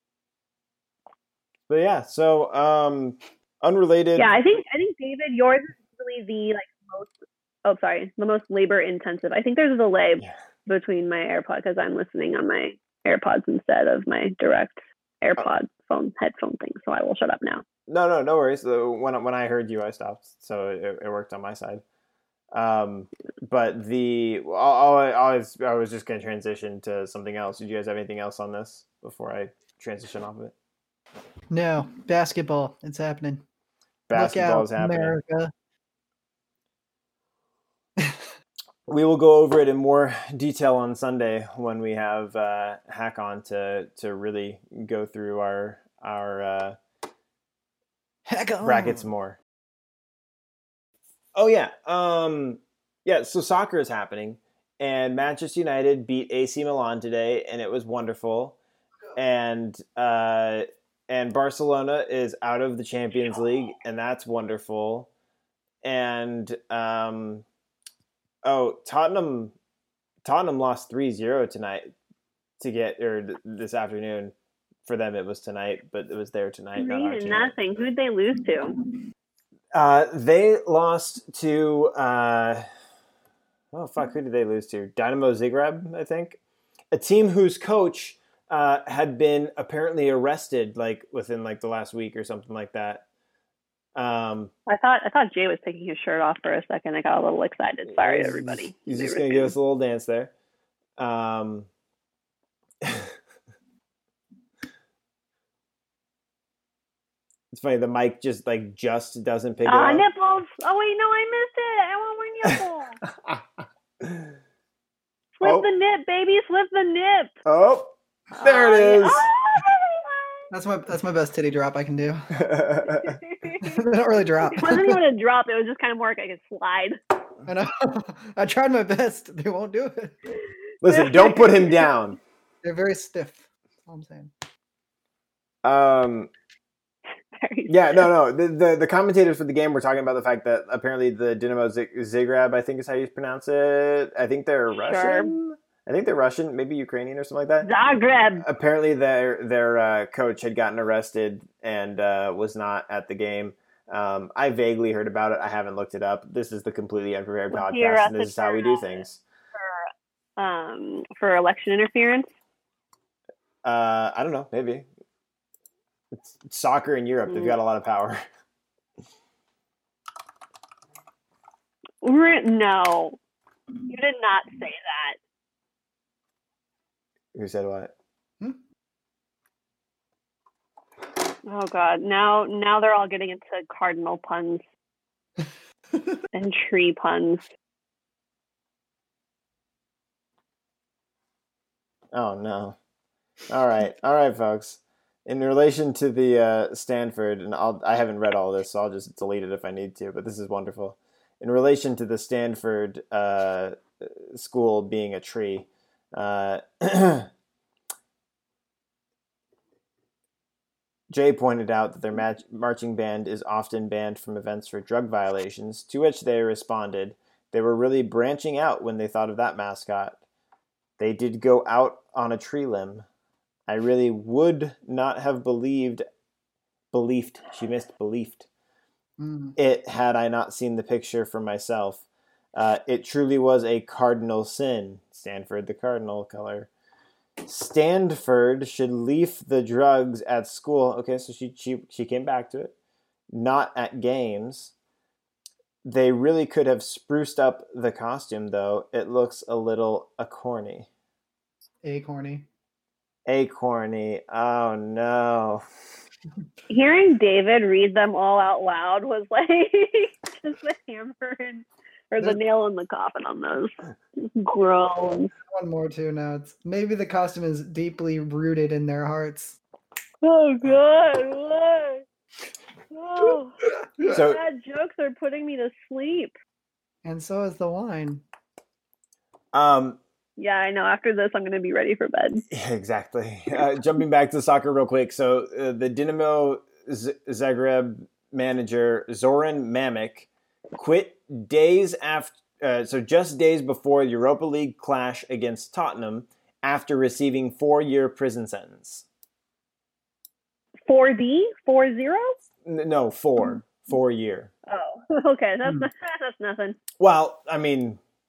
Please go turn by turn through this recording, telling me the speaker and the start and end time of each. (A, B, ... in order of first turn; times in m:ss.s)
0:01.7-0:04.3 A
0:04.2-0:07.1 B
0:07.6-0:17.6 B
0:17.9-0:21.8 A
0:22.5-0:30.6 A
0:31.5-0:33.4 C
0:34.1-0:35.2 A
0:34.1-0:35.5 C
0:38.0-0:38.3 C
0:38.9-0:46.8 A
0:48.3-0:49.1 C
0:48.6-0:49.4 A
0:51.4-0:58.6 A
0:59.2-1:05.1 A
1:05.8-1:07.4 A
1:08.4-1:09.5 A
1:10.2-1:11.9 A
1:12.6-1:14.3 A
1:14.8-1:17.6 A
1:16.8-1:18.8 B
1:19.7-1:22.7 A
1:23.7-1:26.4 A
1:26.9-1:33.0 A
1:34.0-1:34.5 A
1:34.7-1:39.5 B
1:37.9-1:40.3 A
1:41.0-1:41.7 A
1:42.8-1:43.1 A
1:47.5-1:50.0 A
1:49.7-1:53.0 B
1:53.1-1:53.4 A
1:54.0-1:54.4 A
1:55.4-1:57.4 B
1:57.5-1:59.3 A
1:58.3-2:00.5 B
2:00.5-2:02.3 C
2:02.3-2:03.2 A
2:03.0-2:03.8 B
2:03.6-2:05.0 C
2:04.5-2:07.0 B
2:07.4-2:10.2 C
2:10.8-2:12.2 A
2:10.9-2:11.9 B
2:12.6-2:14.3 C
2:15.6-2:16.3 A
2:17.4-2:18.1 B
2:17.7-2:27.7 A
2:24.7-2:25.3 B
2:27.6-2:28.4 B
2:28.4-2:39.2 A
2:37.5-2:39.0 B
2:39.6-2:42.3 B
2:43.6-2:44.9 A
2:46.1-2:48.2 A
2:47.3-2:47.6 B
2:52.0-2:53.2 B
2:53.9-2:55.2 B
2:57.4-2:57.9 A
3:01.5-3:04.6 B
3:05.4-3:06.2 C
3:06.3-3:07.5 B
3:12.1-3:12.8 A
3:13.5-3:27.3 A
3:31.1-3:40.2 A
3:41.0-3:43.1 A
3:43.7-3:46.0 A
3:46.9-3:48.5 A
3:49.2-3:49.6 C
3:49.6-3:52.0 A
3:52.6-3:56.7 A
3:57.4-4:02.7 A
4:03.3-4:04.7 A
4:05.8-4:10.9 A
4:11.8-4:12.5 C
4:13.3-4:15.6 A
4:16.7-4:25.3 B
4:25.4-4:29.6 C
4:30.2-4:32.0 B
4:32.9-4:36.4 B
4:34.1-4:34.4 A
4:37.0-4:38.2 C
4:39.5-4:40.0 A
4:40.4-4:42.4 B
4:42.5-4:59.1 A
5:00.9-5:02.4 B
5:02.6-5:04.5 A
5:04.7-5:06.8 B
5:07.0-5:08.0 A